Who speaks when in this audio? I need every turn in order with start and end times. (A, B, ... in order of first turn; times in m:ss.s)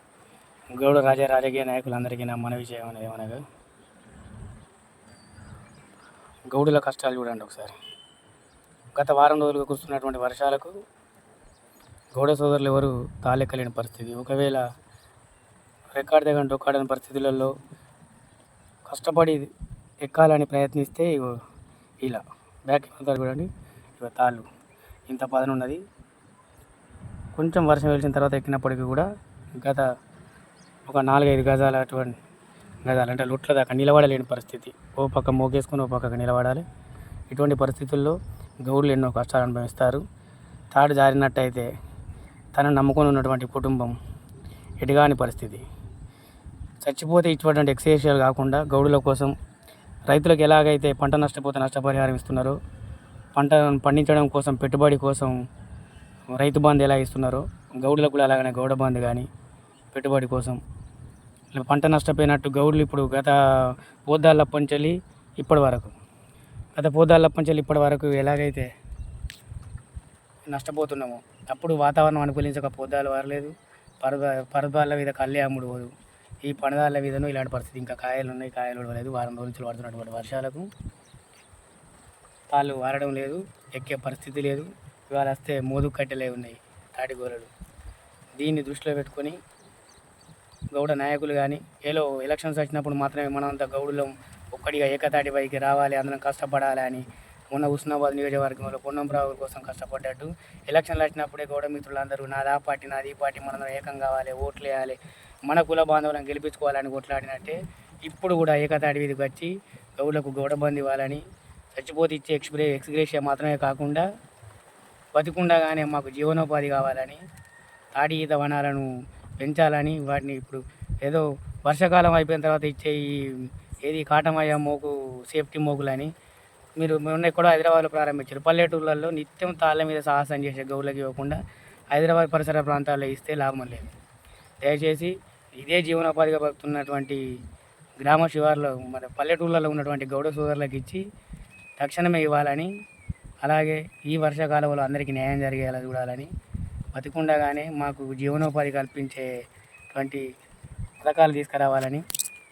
0:00.7-0:03.4 A
0:06.5-0:07.8 A
0:09.0-0:10.8 A
0:12.2-0:14.7 A
0:15.9-0:17.5 A
0:18.9-0:19.5 A
0:20.0-0:21.4 A
0:22.0-0:24.5 A
0:25.1-0:25.8 A
0:27.4-0:29.1 A
0:29.6-0:29.9 A
0:30.9-0:32.2 A
0:32.9-0:36.6 A
0:37.3-0:40.0 A
0:40.7-0:41.7 A
0:42.6-0:44.0 A
0:44.8-0:45.6 A
0:46.8-0:49.3 A
0:50.1-0:52.6 A
0:53.4-0:55.4 A
0:56.3-0:59.3 A
0:59.9-1:00.6 A
1:01.5-1:06.0 A
1:06.8-1:08.7 A
1:10.5-1:15.9 A
1:16.4-1:20.7 A
1:22.5-1:27.5 A
1:28.4-1:29.4 A
1:30.7-1:51.2 A
1:51.8-1:54.1 A
1:55.2-1:57.2 A
1:58.0-2:06.1 A
2:06.8-2:11.4 A
2:11.9-2:13.9 A
2:14.6-2:17.2 A
2:18.0-2:21.0 A
2:21.8-2:22.7 A
2:23.4-2:26.3 A
2:26.9-2:29.3 A
2:29.9-2:30.2 A
2:31.0-2:32.0 A